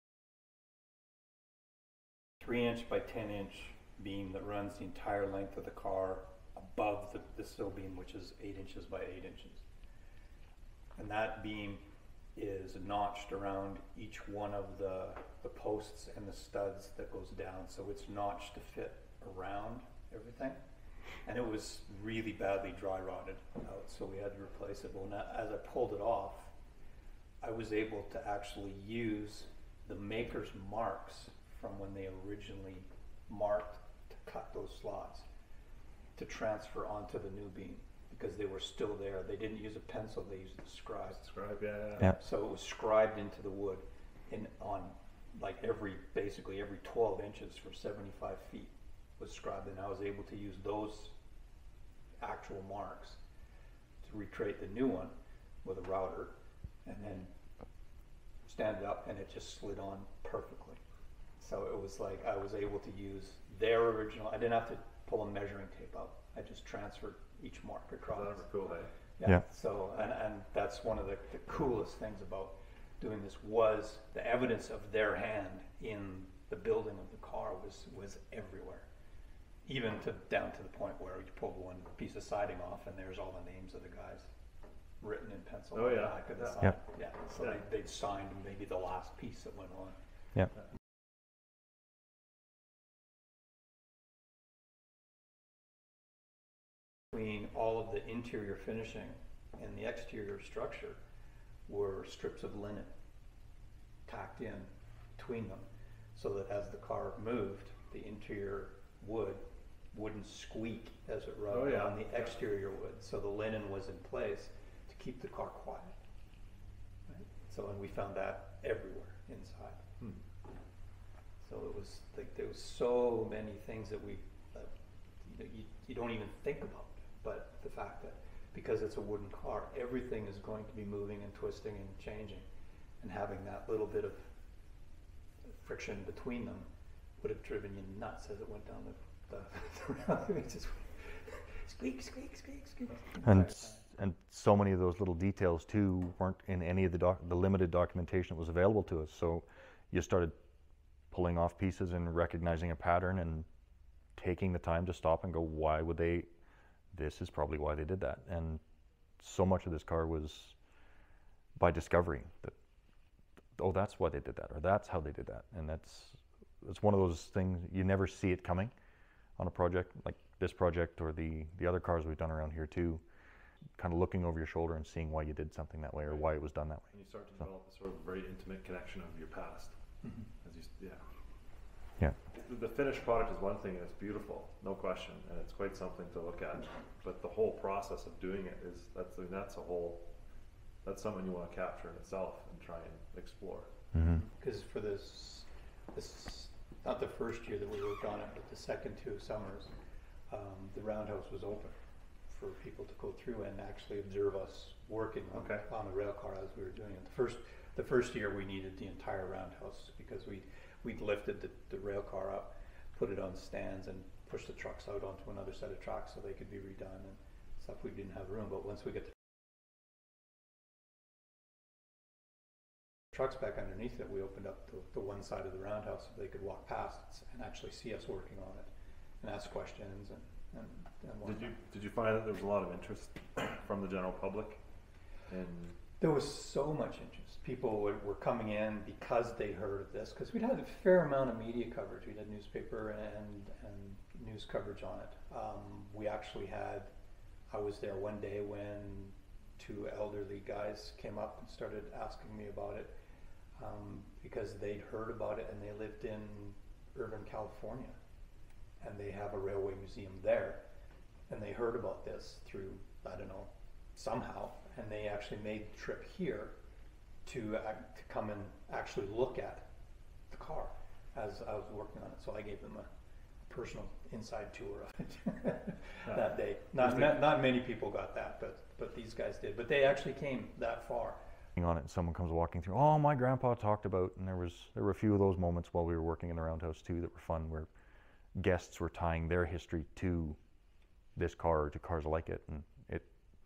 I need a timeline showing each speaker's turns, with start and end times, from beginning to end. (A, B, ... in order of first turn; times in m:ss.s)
0:02.4-0:09.6 A
0:11.0-0:11.8 A
0:12.4-0:20.6 A
0:21.2-0:26.5 A
0:27.4-0:35.3 A
0:36.2-0:41.3 A
0:41.3-0:42.1 B
0:42.1-0:51.1 A
0:52.2-0:53.2 A
0:54.0-0:55.1 A
0:55.6-0:56.3 A
0:56.8-0:57.3 A
0:58.5-1:00.8 A
1:01.4-1:08.4 A
1:08.1-1:08.9 B
1:09.2-1:18.9 A
1:19.6-1:24.3 A
1:25.0-1:30.0 A
1:25.7-1:26.7 B
1:37.1-1:41.0 A
1:41.7-1:42.9 A
1:44.1-1:49.4 A
1:49.9-1:56.0 A
1:51.5-1:52.2 B
1:57.1-1:59.8 A
2:01.4-2:04.7 A
2:05.2-2:12.5 A
2:13.0-2:14.3 A
2:15.5-2:16.7 A
2:17.2-2:23.8 A
2:23.2-2:30.4 C
2:31.1-2:33.5 C
2:34.1-2:36.3 C
2:36.9-2:38.6 C
2:39.2-2:40.6 C
2:41.6-2:42.6 C
2:43.6-2:48.7 C
2:49.4-2:53.0 C
2:53.8-2:56.9 C
2:56.9-2:59.8 B
3:00.3-3:01.0 B
3:02.3-3:10.1 B
3:10.8-3:13.7 B
3:13.9-3:14.2 C
3:14.1-3:19.7 A
3:20.3-3:21.8 A
3:22.3-3:39.2 A
3:25.3-3:25.7 B
3:43.1-3:48.7 A
3:49.2-3:51.5 A
3:51.2-3:54.6 B
3:55.3-3:55.8 B
3:56.0-4:06.9 A
4:07.5-4:12.9 A
4:13.6-4:18.0 A
4:18.8-4:20.6 A
4:21.3-4:26.5 A
4:27.2-4:29.7 A
4:30.3-4:32.9 A
4:33.5-4:41.2 A
4:41.6-4:47.7 C
4:48.4-4:50.4 C
4:51.2-4:53.1 C